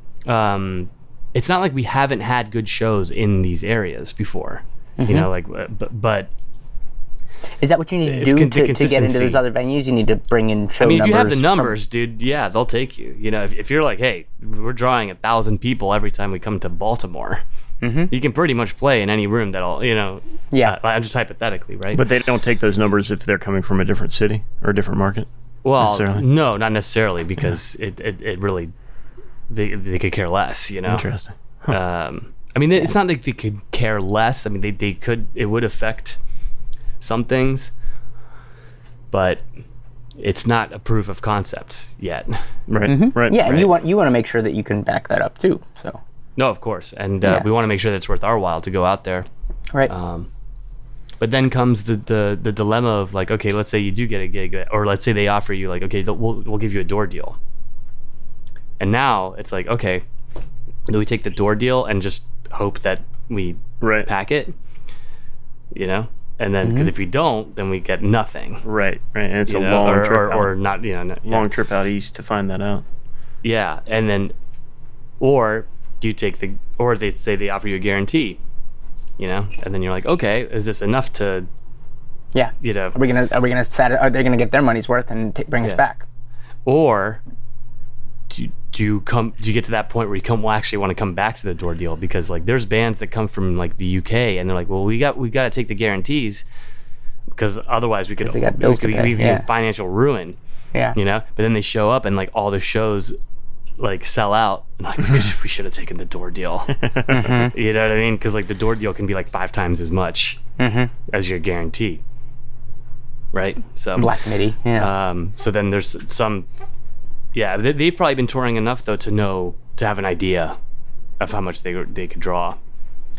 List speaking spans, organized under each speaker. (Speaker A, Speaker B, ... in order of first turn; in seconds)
Speaker A: 0.3-6.3, 8.0-9.4, 10.8-17.4, 18.1-22.0, 25.6-28.7, 29.5-31.1, 31.7-36.2, 37.0-37.7, 39.1-39.4, 40.2-42.4, 43.3-43.7, 46.4-49.3, 49.9-50.3, 51.2-57.4, 58.8-60.0, 60.9-64.5, 65.7-68.6, 69.5-71.5, 73.4-74.3, 75.2-78.4, 79.2-81.5, 82.6-83.0, 86.7-87.2, 88.3-96.4, 97.3-100.4, 100.9-103.2, 103.8-110.4, 111.1-112.0, 113.3-114.1, 114.7-116.5, 117.3-120.6, 121.2-122.6
Speaker B: 5.0-5.3, 7.6-11.7, 17.8-18.1, 42.9-46.0, 66.6-66.9, 82.3-86.0, 98.2-99.4, 107.1-107.5, 110.6-110.9, 114.0-114.9
Speaker C: 21.9-25.3, 25.8-26.2, 30.9-31.8, 42.7-43.4, 63.8-64.1, 68.6-70.5, 71.2-72.8, 106.8-107.2